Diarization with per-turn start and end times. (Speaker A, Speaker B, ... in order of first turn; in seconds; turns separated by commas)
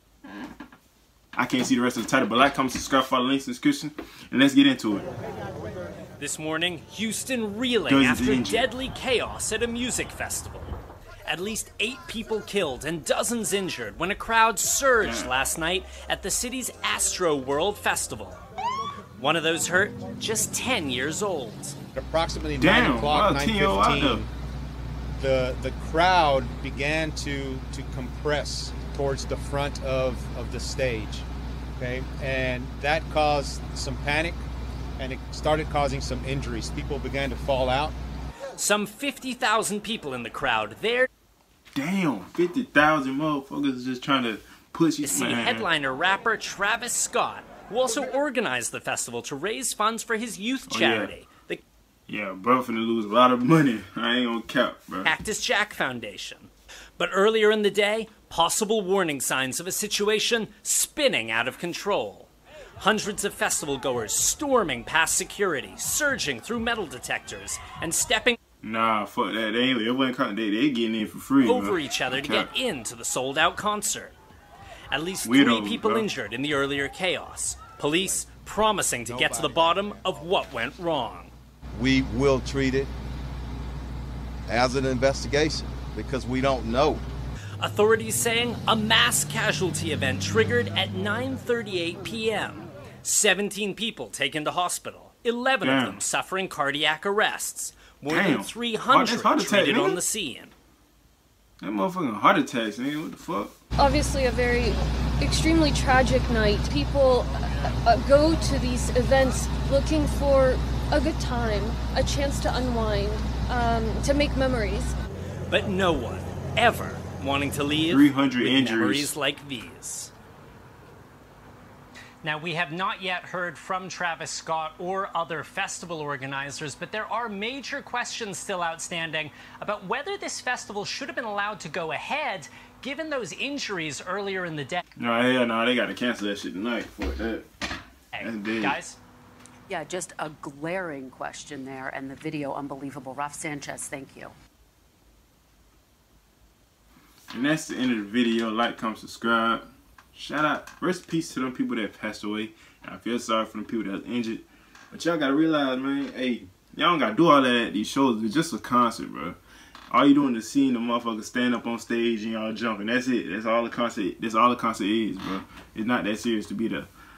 Speaker A: 1.4-5.1, Speaker B: 6.2-10.8, Speaker A: 7.9-8.7, Speaker B: 11.3-18.4, Speaker A: 15.0-15.3, Speaker B: 19.2-21.8, Speaker C: 21.9-24.3, Speaker A: 22.6-24.3, Speaker C: 25.2-31.3, Speaker C: 31.8-34.4, Speaker C: 35.0-38.0, Speaker B: 38.6-41.1, Speaker A: 41.8-45.7, Speaker B: 45.0-51.6, Speaker A: 50.7-51.1, Speaker A: 52.1-55.1, Speaker B: 55.0-68.4, Speaker A: 68.6-72.5, Speaker B: 71.4-74.2, Speaker B: 74.9-81.3, Speaker A: 75.2-76.1, Speaker C: 79.1-80.3, Speaker D: 81.7-82.9, Speaker D: 84.5-87.0, Speaker B: 87.6-100.5, Speaker A: 95.6-96.0, Speaker A: 98.1-100.0, Speaker A: 101.6-103.5, Speaker E: 103.8-115.0, Speaker B: 115.5-120.1, Speaker A: 117.9-119.1, Speaker B: 122.2-134.8, Speaker A: 135.0-137.5, Speaker B: 138.1-139.0, Speaker A: 138.2-138.8, Speaker F: 139.7-144.3, Speaker A: 147.3-159.4, Speaker A: 159.9-166.9